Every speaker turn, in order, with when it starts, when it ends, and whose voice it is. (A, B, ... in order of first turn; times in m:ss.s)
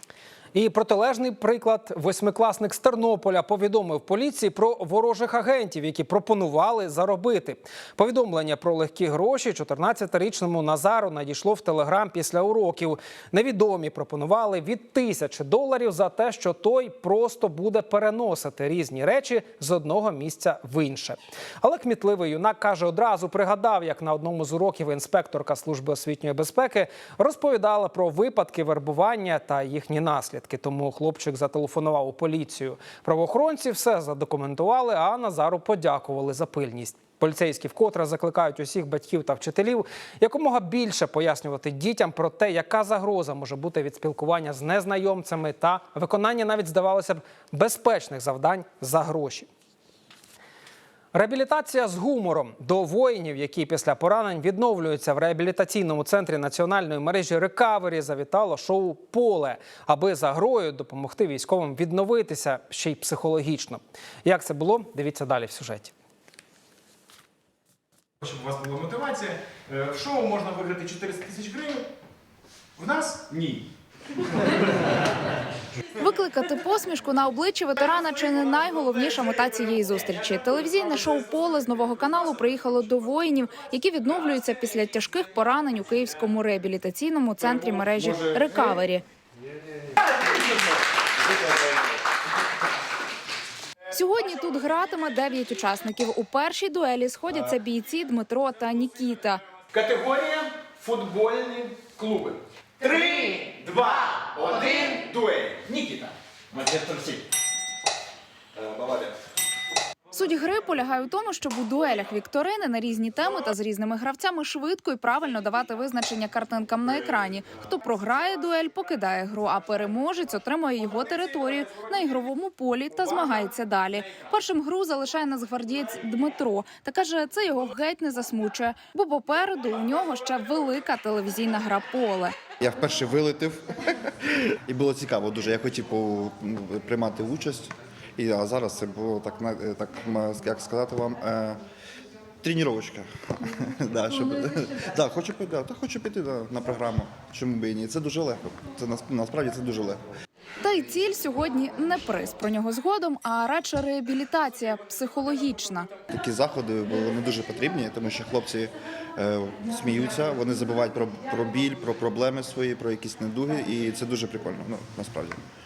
0:00.5-0:49.5 A
0:51.1-1:05.9 A
1:08.2-1:11.8 B
1:12.8-1:13.6 B
1:16.0-1:29.0 C
1:27.5-1:28.8 B
1:33.9-1:39.4 C
1:39.7-1:47.2 B
1:48.6-1:49.1 B
1:50.1-2:12.3 C
2:12.6-2:21.6 D
2:22.4-2:30.0 D
2:30.6-2:35.9 C
2:36.1-2:45.4 D